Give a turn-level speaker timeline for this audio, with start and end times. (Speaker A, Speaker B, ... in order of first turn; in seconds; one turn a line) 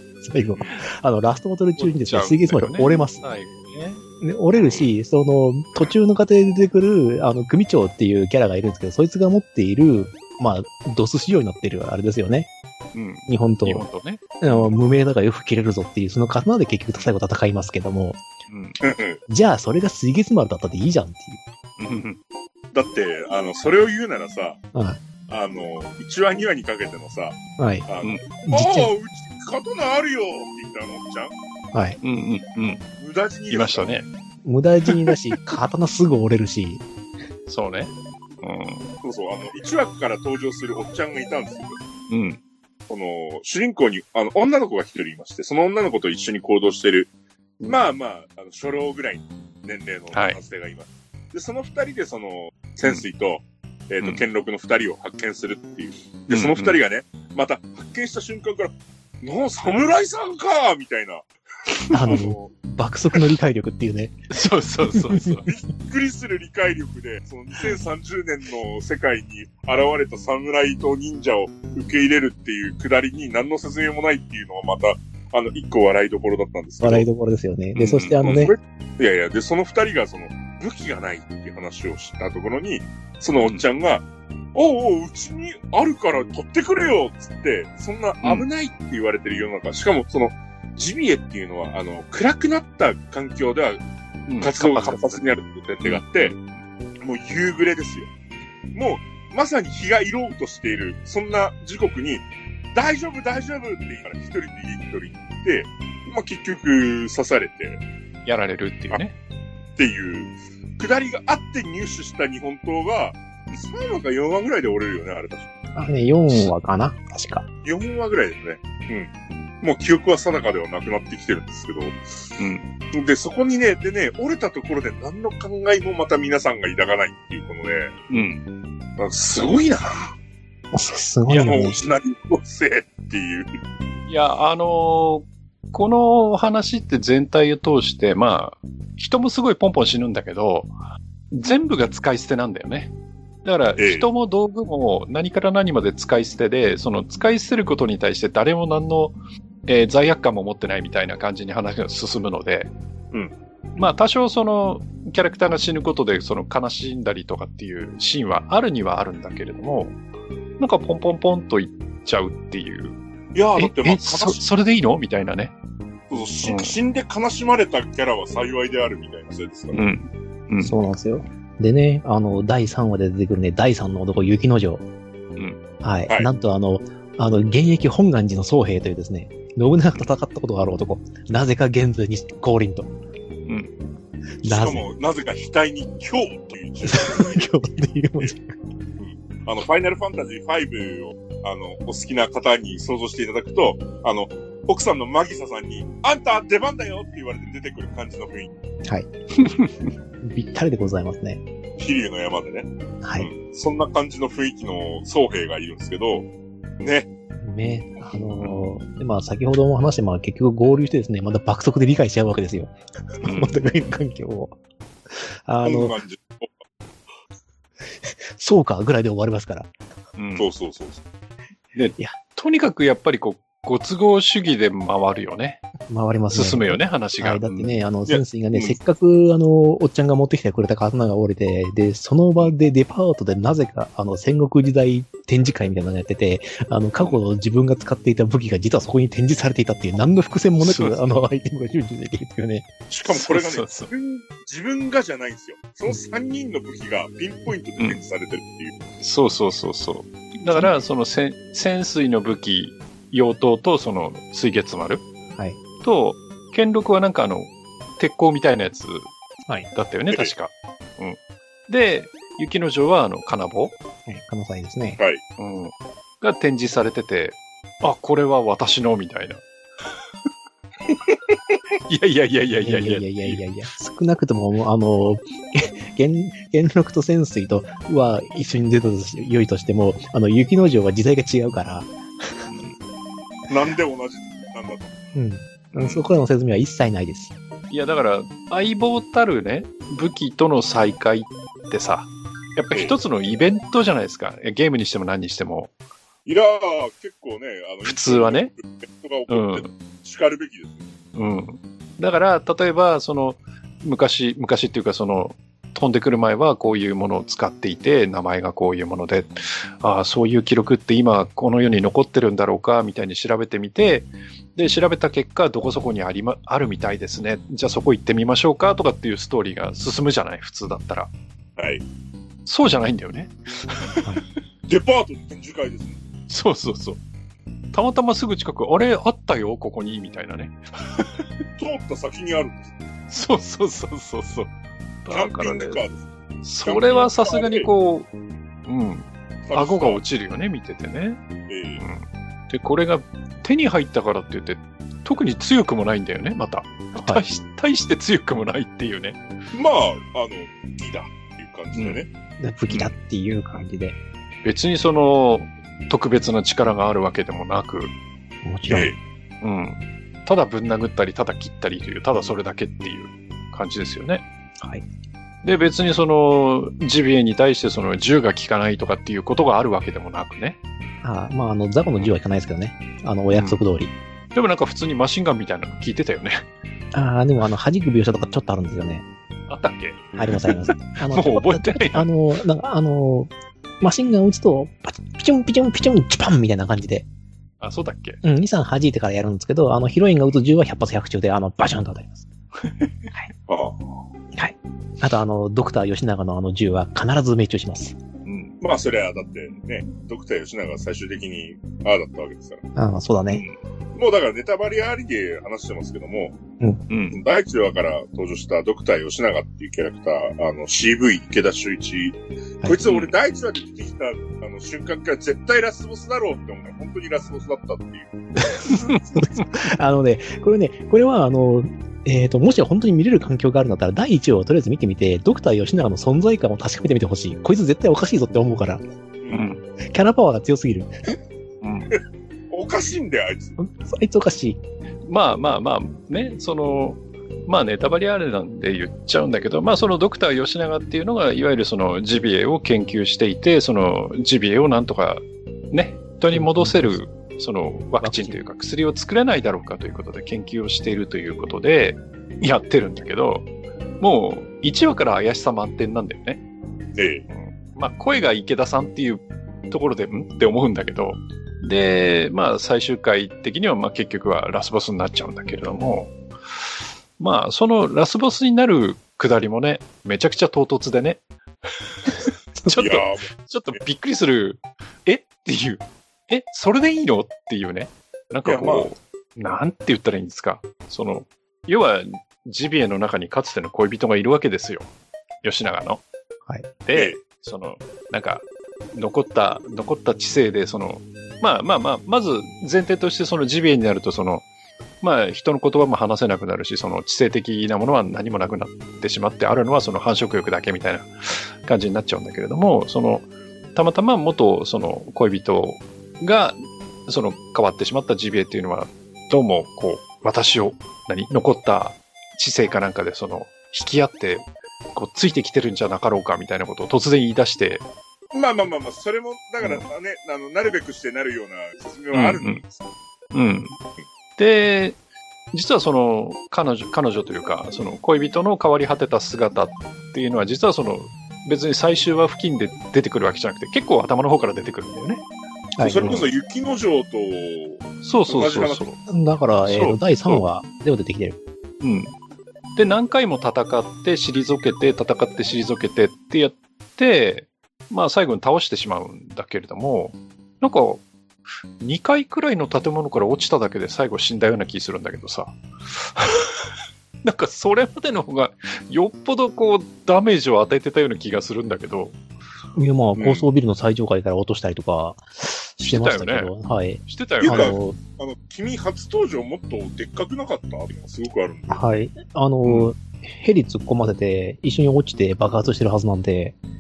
Speaker A: 0.2-3.2
Speaker B: 1.8-4.0
Speaker A: 4.2-12.5
Speaker B: 4.5-4.9
Speaker B: 12.9-14.8
Speaker A: 13.3-13.9
Speaker A: 14.4-18.2
Speaker B: 18.5-18.8
Speaker C: 18.8-19.2
Speaker A: 19.3-21.4
Speaker B: 21.8-22.2
Speaker C: 22.7-24.6
Speaker A: 24.7-25.0
Speaker C: 25.3-31.3
Speaker A: 27.6-27.9
Speaker A: 28.4-28.9
Speaker A: 31.7-32.0
Speaker B: 32.0-32.8
Speaker C: 33.0-33.9
Speaker B: 33.5-34.1
Speaker A: 34.4-36.9
Speaker B: 34.9-35.1
Speaker B: 37.5-37.9
Speaker B: 38.4-38.9
Speaker C: 39.0-41.8
Speaker B: 42.1-42.4
Speaker C: 42.9-47.1
Speaker C: 47.7-61.2
Speaker B: 56.3-56.8
Speaker A: 61.9-64.2
Speaker C: 62.0-62.5
Speaker B: 64.3-65.5
Speaker A: 64.9-65.4
Speaker C: 65.5-77.1
Speaker A: 76.8-78.5
Speaker B: 77.8-78.2
Speaker C: 78.2-93.8
Speaker B: 94.3-95.2
Speaker C: 94.4-96.3
Speaker B: 95.8-96.4
Speaker C: 97.0-98.1
Speaker C: 98.7-107.8
Speaker B: 108.3-109.2
Speaker C: 109.8-115.5
Speaker A: 115.8-117.5
Speaker C: 117.7-119.1
Speaker C: 119.6-122.0
Speaker B: 122.4-122.7
Speaker C: 122.9-128.0
Speaker B: 128.1-128.4
Speaker C: 129.0-130.1
Speaker A: 130.7-131.8
Speaker C: 131.3-133.5
Speaker B: 134.1-140.7
Speaker B: 141.3-142.9
Speaker B: 143.4-149.2
Speaker C: 143.8-144.1
Speaker B: 149.7-152.7
Speaker B: 153.8-160.0
Speaker B: 160.6-163.0
Speaker C: 163.3-164.4
Speaker B: 163.6-165.5
Speaker C: 166.1-169.8
Speaker B: 166.4-166.8
Speaker B: 169.7-170.8
Speaker A: 170.6-174.8
Speaker A: 175.8-182.9
Speaker B: 183.5-183.7
Speaker A: 184.4-184.9
Speaker C: 184.4-187.5
Speaker A: 186.8-188.5
Speaker C: 189.0-198.6
Speaker B: 199.4-199.9
Speaker A: 200.2-201.4
Speaker C: 201.8-206.3
Speaker A: 203.0-203.3
Speaker C: 206.8-207.1
Speaker A: 207.4-214.6
Speaker B: 213.2-213.6
Speaker A: 215.2-215.9
Speaker C: 215.6-216.5
Speaker A: 218.0-219.7
Speaker B: 220.2-220.5
Speaker C: 220.4-221.0
Speaker B: 221.8-225.6
Speaker A: 225.9-242.7
Speaker B: 226.3-227.7
Speaker C: 228.1-228.8
Speaker B: 240.6-240.9
Speaker C: 242.9-248.8
Speaker B: 243.1-243.9
Speaker B: 249.0-255.1
Speaker B: 255.8-259.1
Speaker B: 259.7-263.8
Speaker A: 264.1-265.0
Speaker B: 265.4-269.4
Speaker B: 271.9-273.4
Speaker A: 272.6-282.5
Speaker B: 282.5-282.8
Speaker C: 283.5-284.9
Speaker A: 285.1-287.3
Speaker B: 285.7-286.0
Speaker B: 287.7-295.7
Speaker C: 296.2-300.8
Speaker B: 297.9-298.5
Speaker B: 299.3-299.7
Speaker B: 301.1-321.1
Speaker C: 321.6-321.8
Speaker B: 322.5-324.1
Speaker C: 324.7-326.0
Speaker B: 326.3-327.0
Speaker B: 327.7-331.2
Speaker C: 331.6-332.7
Speaker B: 333.1-334.5
Speaker B: 335.1-335.8
Speaker C: 335.1-336.1
Speaker B: 336.4-338.1
Speaker C: 336.6-337.7
Speaker B: 338.7-341.2
Speaker C: 339.5-340.0
Speaker C: 341.5-341.8
Speaker B: 341.8-349.2
Speaker A: 346.9-347.2
Speaker C: 349.5-352.1
Speaker B: 351.8-352.0
Speaker A: 352.4-354.0
Speaker B: 354.4-357.9
Speaker A: 358.4-358.9
Speaker C: 358.7-359.0
Speaker B: 359.4-364.2
Speaker B: 365.4-370.6
Speaker A: 371.0-373.9
Speaker B: 373.4-373.6
Speaker B: 374.3-376.4
Speaker A: 376.9-379.1
Speaker B: 379.5-382.1
Speaker A: 380.2-387.1
Speaker B: 387.6-388.2
Speaker A: 388.2-392.3
Speaker B: 392.6-393.1
Speaker C: 393.5-393.9
Speaker A: 394.3-398.0
Speaker B: 398.3-398.6
Speaker C: 398.6-402.6
Speaker A: 402.8-403.4
Speaker B: 403.3-403.6
Speaker C: 403.9-406.4
Speaker B: 406.9-407.2
Speaker C: 407.1-418.1
Speaker B: 412.9-413.1
Speaker A: 418.4-428.8
Speaker B: 418.7-419.4
Speaker B: 429.3-429.6
Speaker A: 429.8-430.9
Speaker B: 431.6-432.0
Speaker C: 432.5-433.6
Speaker A: 433.6-434.6
Speaker B: 435.1-453.5
Speaker A: 446.3-447.0
Speaker A: 448.0-448.4
Speaker B: 454.0-456.4
Speaker C: 456.9-457.3
Speaker B: 457.3-466.1
Speaker B: 467.2-471.2
Speaker B: 472.0-484.9
Speaker C: 472.7-473.3
Speaker C: 478.5-478.9
Speaker B: 485.4-486.0
Speaker B: 486.9-494.5
Speaker C: 486.9-487.2
Speaker B: 495.0-517.9
Speaker C: 518.3-522.8
Speaker B: 522.1-522.6
Speaker B: 523.3-523.8
Speaker B: 524.4-525.0
Speaker B: 525.5-535.2
Speaker A: 535.8-536.3
Speaker C: 535.8-538.9
Speaker B: 538.0-539.0
Speaker A: 539.1-541.4
Speaker B: 539.6-540.4
Speaker B: 541.8-542.1
Speaker B: 542.8-551.0
Speaker B: 551.8-556.6
Speaker B: 557.2-562.1
Speaker A: 562.8-565.2
Speaker A: 565.8-568.0
Speaker B: 565.8-566.5
Speaker B: 567.1-567.8
Speaker C: 567.4-571.8
Speaker A: 571.7-576.6
Speaker B: 572.6-572.9